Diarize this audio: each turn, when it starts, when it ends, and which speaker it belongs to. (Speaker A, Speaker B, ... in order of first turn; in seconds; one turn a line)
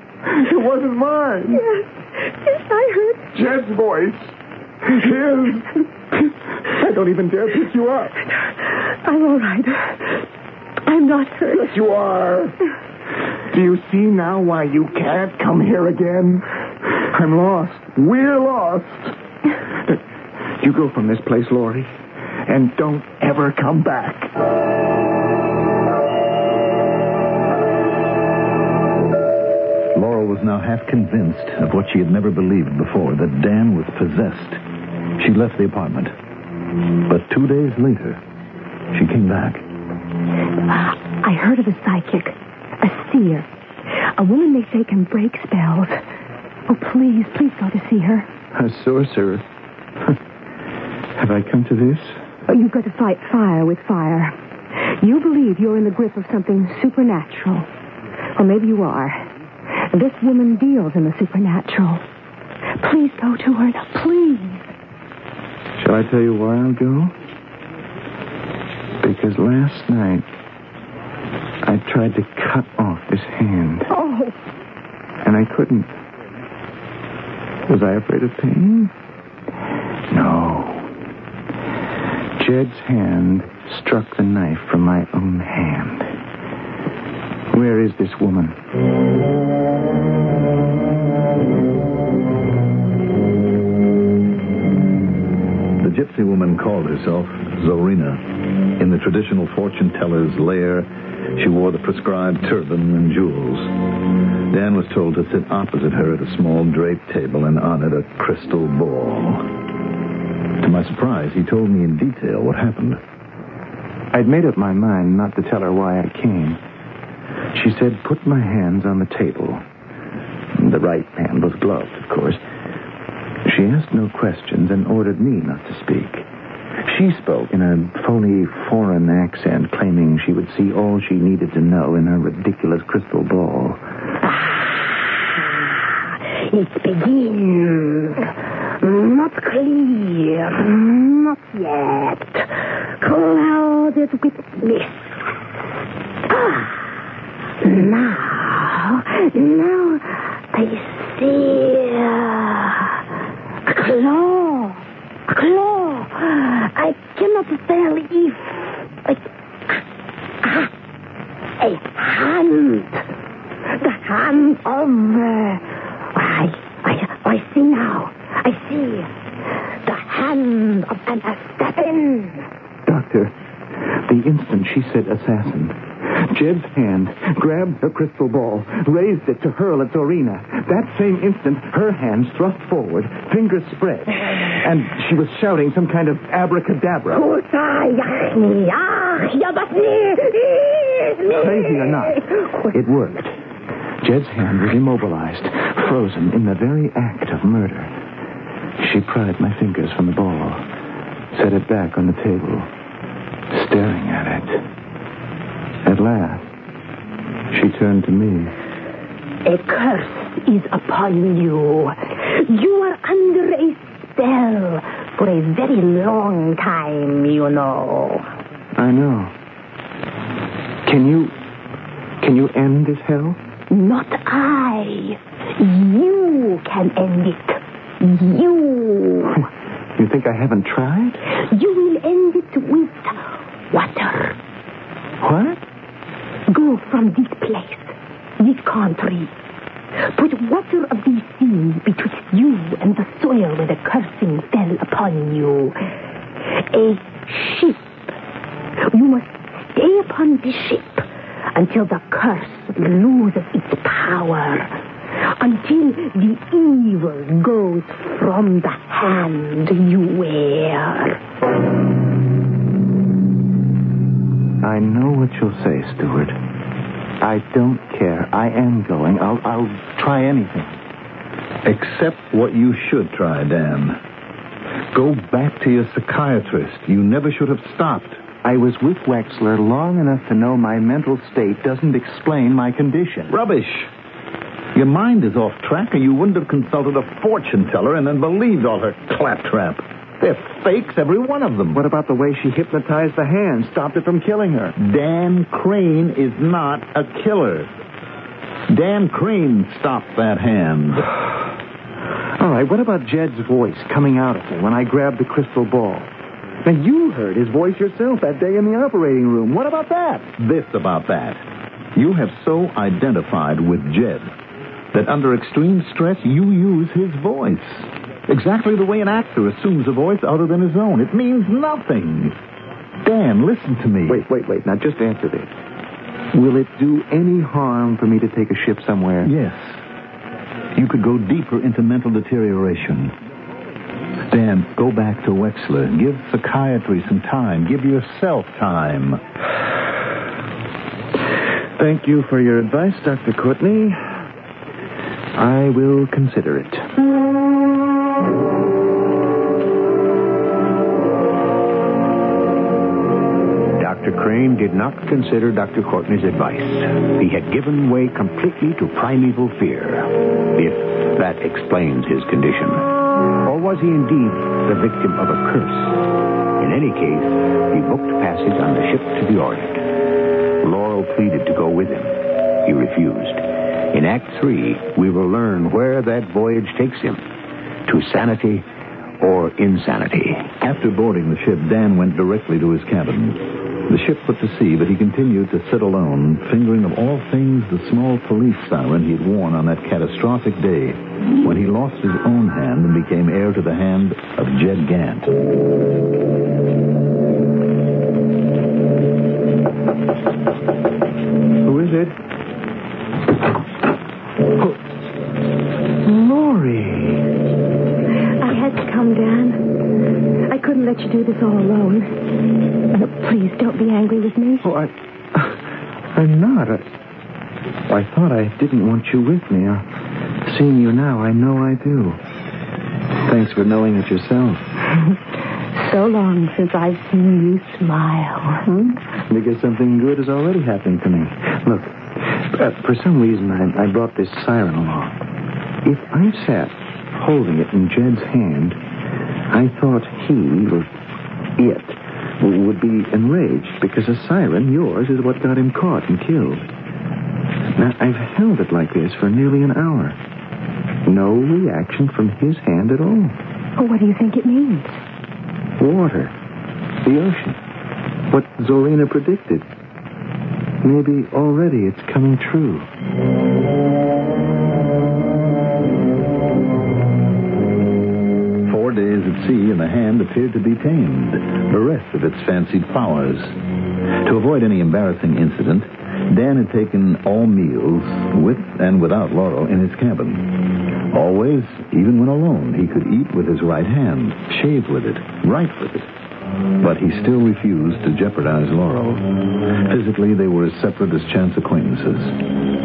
Speaker A: 0.2-1.6
Speaker B: 1.5-3.3
Speaker A: 3.3-4.3
Speaker A: 4.8-5.7
Speaker A: 6.7-8.2
Speaker B: 8.7-10.2
Speaker B: 10.8-11.7
Speaker A: 11.6-12.6
Speaker A: 13.5-19.1
Speaker A: 20.6-21.9
Speaker A: 22.5-24.3
Speaker C: 29.9-34.6
Speaker C: 35.2-36.1
Speaker C: 37.0-38.2
Speaker C: 38.9-39.6
Speaker B: 40.7-46.0
Speaker B: 46.7-48.3
Speaker A: 48.5-49.4
Speaker A: 51.1-52.2
Speaker B: 52.5-57.7
Speaker B: 58.4-59.2
Speaker B: 59.9-62.0
Speaker B: 62.8-64.6
Speaker A: 65.8-67.1
Speaker A: 69.0-70.3
Speaker A: 71.6-73.9
Speaker B: 73.9-74.3
Speaker A: 75.2-75.9
Speaker A: 77.7-78.9
Speaker A: 80.1-80.9
Speaker A: 82.4-86.1
Speaker A: 87.5-88.6
Speaker C: 95.8-109.5
Speaker C: 110.6-113.0
Speaker A: 114.1-116.6
Speaker A: 117.5-119.6
Speaker A: 120.6-122.4
Speaker A: 123.4-126.2
Speaker A: 126.8-133.8
Speaker D: 136.3-145.0
Speaker D: 146.3-146.7
Speaker D: 147.6-152.9
Speaker D: 153.7-159.8
Speaker D: 160.4-160.7
Speaker D: 161.6-163.0
Speaker D: 163.7-169.1
Speaker D: 169.8-172.5
Speaker A: 172.8-187.2
Speaker D: 187.1-192.3
Speaker A: 191.3-193.3
Speaker A: 194.0-197.9
Speaker A: 198.8-200.6
Speaker A: 201.3-202.7
Speaker A: 203.5-204.6
Speaker A: 205.8-206.4
Speaker A: 207.5-208.5
Speaker D: 209.4-218.3
Speaker A: 218.8-219.3
Speaker A: 220.8-221.3
Speaker A: 222.2-223.4
Speaker D: 223.7-229.3
Speaker A: 229.3-231.2
Speaker D: 231.5-233.1
Speaker B: 232.3-232.6
Speaker D: 233.7-234.4
Speaker A: 235.2-235.6
Speaker D: 236.5-239.3
Speaker D: 240.2-245.8
Speaker B: 241.0-241.4
Speaker D: 246.6-247.9
Speaker D: 248.9-254.7
Speaker D: 255.4-261.2
Speaker A: 264.6-266.4
Speaker A: 267.2-270.7
Speaker C: 271.6-274.0
Speaker C: 274.9-278.2
Speaker A: 278.4-283.3
Speaker C: 283.3-283.9
Speaker C: 284.7-291.8
Speaker A: 291.7-294.7
Speaker C: 294.8-297.7
Speaker C: 298.7-301.1
Speaker A: 302.4-306.1
Speaker A: 306.6-310.3
Speaker C: 310.4-311.4
Speaker C: 311.9-314.3
Speaker C: 314.9-322.4
Speaker C: 323.0-324.2
Speaker A: 324.1-325.5
Speaker A: 326.3-329.3
Speaker C: 329.2-329.8
Speaker C: 330.8-333.1
Speaker C: 334.3-339.2
Speaker A: 341.8-344.1
Speaker A: 345.3-346.9
Speaker E: 353.8-362.8
Speaker E: 363.4-366.0
Speaker E: 366.6-369.8
Speaker E: 370.6-377.2
Speaker E: 377.9-378.6
Speaker E: 379.2-380.5
Speaker C: 380.6-395.4
Speaker A: 401.6-402.1
Speaker A: 406.0-407.3
Speaker B: 408.4-409.6
Speaker B: 410.5-412.1
Speaker B: 412.9-414.7
Speaker A: 414.6-415.6
Speaker A: 416.1-416.8
Speaker A: 417.9-419.9
Speaker A: 420.4-422.2
Speaker A: 423.2-424.7
Speaker B: 425.8-428.6
Speaker A: 428.6-435.2
Speaker A: 435.8-438.8
Speaker A: 439.5-440.9
Speaker A: 441.6-446.6
Speaker A: 447.8-450.2
Speaker A: 451.1-453.4
Speaker B: 453.8-455.0
Speaker A: 455.8-456.3
Speaker A: 457.0-457.6
Speaker A: 458.3-459.6
Speaker A: 460.8-462.9
Speaker C: 468.6-473.6
Speaker C: 474.2-486.1
Speaker C: 486.8-492.4